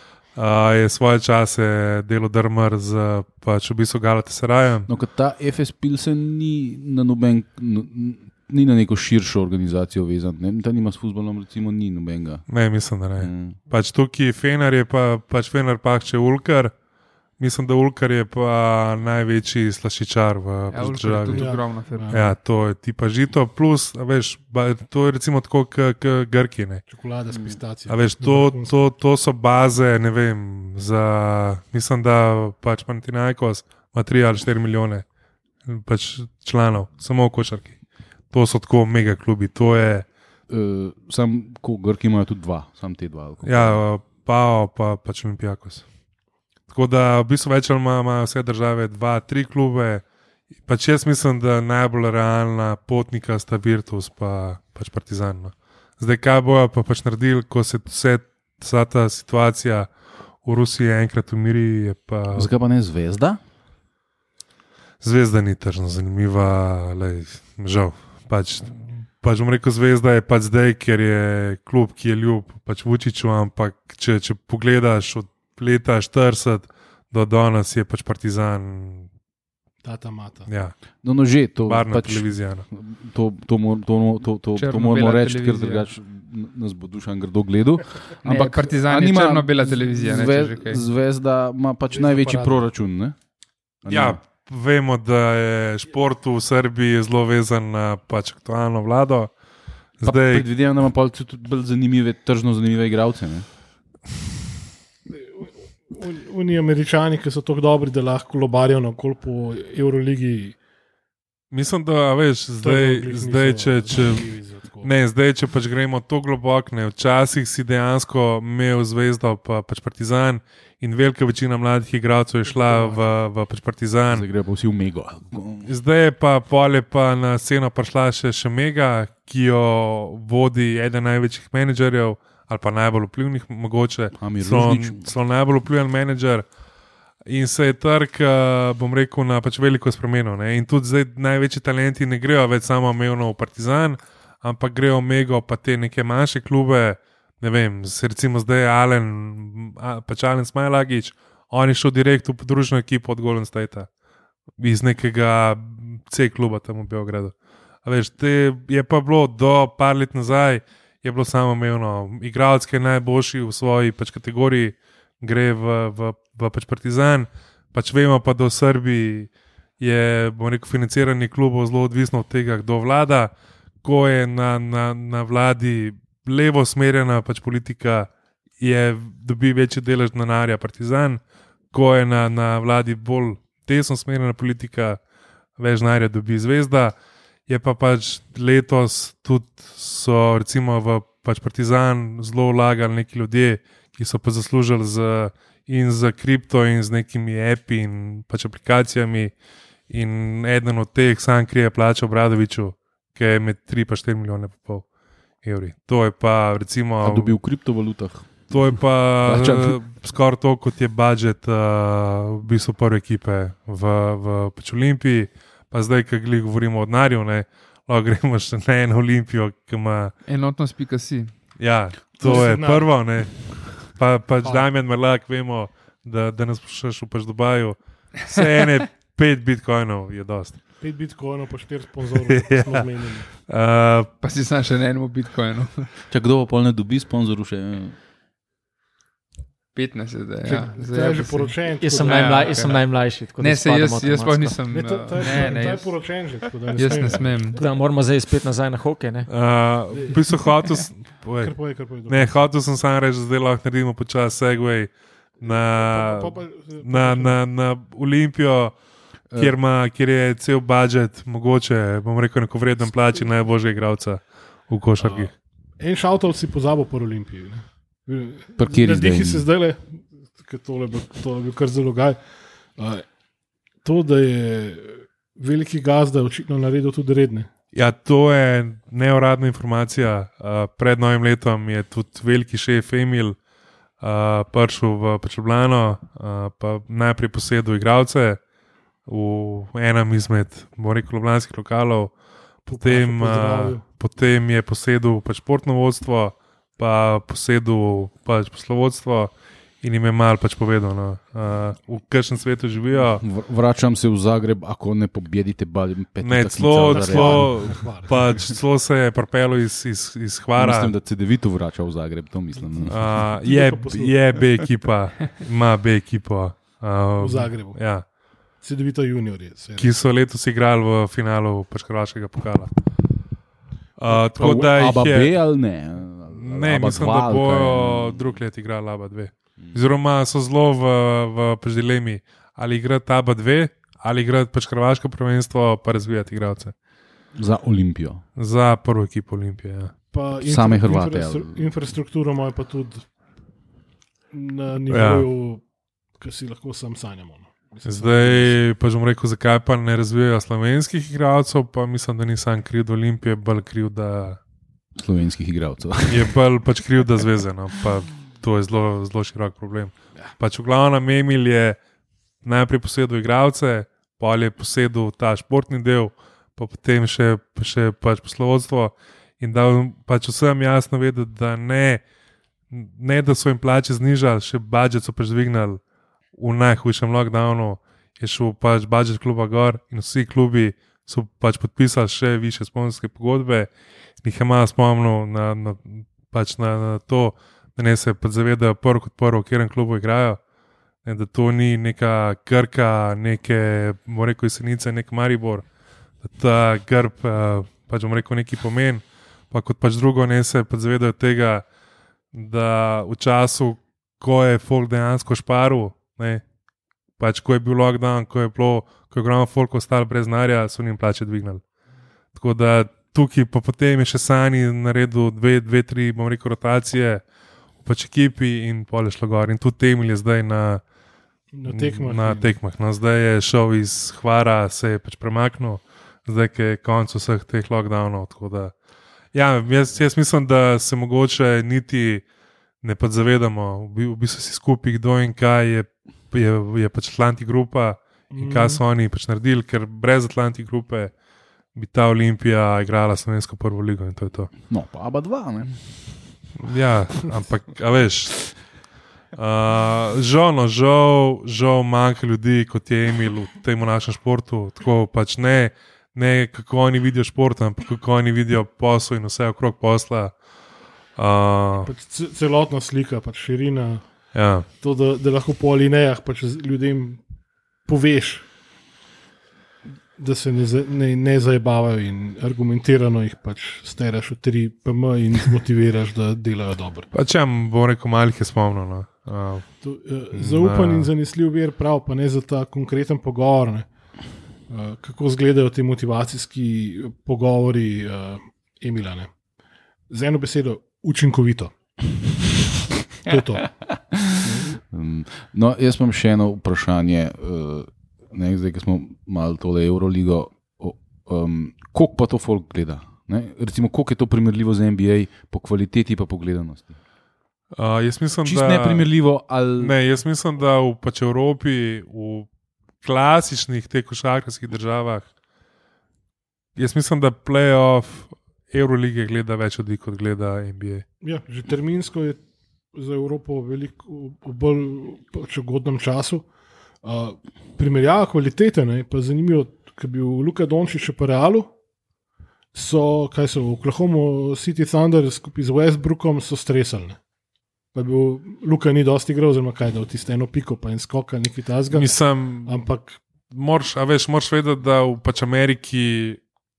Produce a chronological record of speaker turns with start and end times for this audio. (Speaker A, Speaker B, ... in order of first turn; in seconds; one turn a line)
Speaker A: 0.3-4.9
Speaker B: 4.9-12.4
Speaker A: 12.5-16.7
Speaker B: 13.2-13.6
Speaker A: 17.4-26.9
Speaker C: 20.7-22.2
Speaker D: 21.4-22.3
Speaker D: 26.9-28.7
Speaker A: 27.9-35.0
Speaker A: 35.7-37.8
Speaker A: 38.3-40.1
Speaker B: 40.5-43.8
Speaker A: 43.5-45.9
Speaker A: 46.7-50.0
Speaker A: 50.7-59.9
Speaker A: 60.4-62.5
Speaker B: 62.4-63.4
Speaker A: 65.0-79.1
Speaker D: 79.8-80.5
Speaker A: 80.5-80.8
Speaker B: 81.0-93.2
Speaker A: 81.7-82.7
Speaker C: 84.6-85.9
Speaker C: 88.2-90.8
Speaker D: 91.9-92.7
Speaker B: 93.8-94.2
Speaker A: 93.9-99.3
Speaker A: 100.0-100.5
Speaker B: 100.0-103.5
Speaker D: 105.2-110.6
Speaker A: 111.5-114.3
Speaker D: 112.6-114.9
Speaker A: 114.8-124.3
Speaker D: 122.5-123.0
Speaker B: 124.1-125.7
Speaker A: 125.7-136.4
Speaker B: 134.2-135.1
Speaker A: 137.3-153.9
Speaker A: 154.6-157.3
Speaker A: 157.8-173.3
Speaker A: 173.8-181.2
Speaker A: 181.7-185.0
Speaker A: 185.6-186.9
Speaker A: 187.5-199.3
Speaker A: 199.9-204.8
Speaker A: 205.4-207.4
Speaker B: 207.0-209.8
Speaker A: 208.5-220.2
Speaker C: 220.3-221.3
Speaker A: 221.6-230.6
Speaker D: 222.2-222.9
Speaker D: 230.8-233.3
Speaker A: 232.2-234.1
Speaker C: 234.2-235.9
Speaker B: 236.1-238.0
Speaker C: 239.7-247.6
Speaker D: 240.4-242.7
Speaker E: 241.8-244.6
Speaker D: 244.7-247.5
Speaker E: 245.3-245.7
Speaker E: 246.9-249.3
Speaker A: 249.3-258.8
Speaker D: 249.9-250.4
Speaker D: 251.4-252.3
Speaker D: 255.4-257.4
Speaker B: 259.3-259.6
Speaker A: 259.3-265.3
Speaker D: 265.0-272.2
Speaker B: 268.6-269.5
Speaker D: 272.8-273.1
Speaker D: 273.8-277.5
Speaker A: 277.8-283.4
Speaker A: 284.0-288.4
Speaker A: 289.1-303.2
Speaker D: 292.7-293.8
Speaker B: 303.2-308.5
Speaker A: 306.2-310.9
Speaker D: 306.9-308.1
Speaker B: 310.6-313.2
Speaker A: 312.9-318.1
Speaker D: 313.4-314.1
Speaker D: 317.2-317.8
Speaker D: 318.6-319.9
Speaker A: 319.8-322.7
Speaker A: 324.0-325.4
Speaker B: 324.1-328.2
Speaker A: 326.3-336.7
Speaker B: 337.4-338.2
Speaker A: 338.4-339.9
Speaker D: 340.1-343.1
Speaker B: 340.4-341.6
Speaker D: 344.3-345.6
Speaker A: 344.9-345.3
Speaker D: 346.2-348.5
Speaker A: 347.9-354.4
Speaker B: 354.9-356.4
Speaker A: 356.1-361.8
Speaker A: 362.4-372.0
Speaker A: 372.7-375.8
Speaker A: 376.4-383.7
Speaker A: 384.2-390.4
Speaker A: 391.0-395.7
Speaker A: 396.2-401.6
Speaker A: 402.3-406.4
Speaker A: 407.2-411.6
Speaker A: 412.4-417.2
Speaker A: 417.8-420.8
Speaker D: 421.5-422.5
Speaker A: 421.7-428.7
Speaker A: 429.3-432.2
Speaker A: 432.8-441.1
Speaker D: 438.3-438.8
Speaker A: 441.8-444.5
Speaker B: 444.7-446.2
Speaker A: 446.6-448.6
Speaker A: 449.4-460.4
Speaker A: 461.2-461.9
Speaker D: 461.9-467.2
Speaker A: 464.3-464.7
Speaker D: 467.8-468.5
Speaker D: 470.2-477.1
Speaker A: 477.1-481.1
Speaker D: 479.8-483.9
Speaker D: 484.7-489.3
Speaker D: 490.1-492.0
Speaker D: 493.2-494.8
Speaker B: 494.8-507.0
Speaker A: 507.7-509.1
Speaker B: 508.4-510.0
Speaker A: 509.8-512.5
Speaker A: 513.0-515.3
Speaker A: 516.8-521.0
Speaker D: 521.2-522.4
Speaker D: 522.9-526.5
Speaker D: 527.0-531.7
Speaker D: 532.7-537.2
Speaker D: 537.9-543.2
Speaker A: 541.9-542.8
Speaker A: 543.5-546.4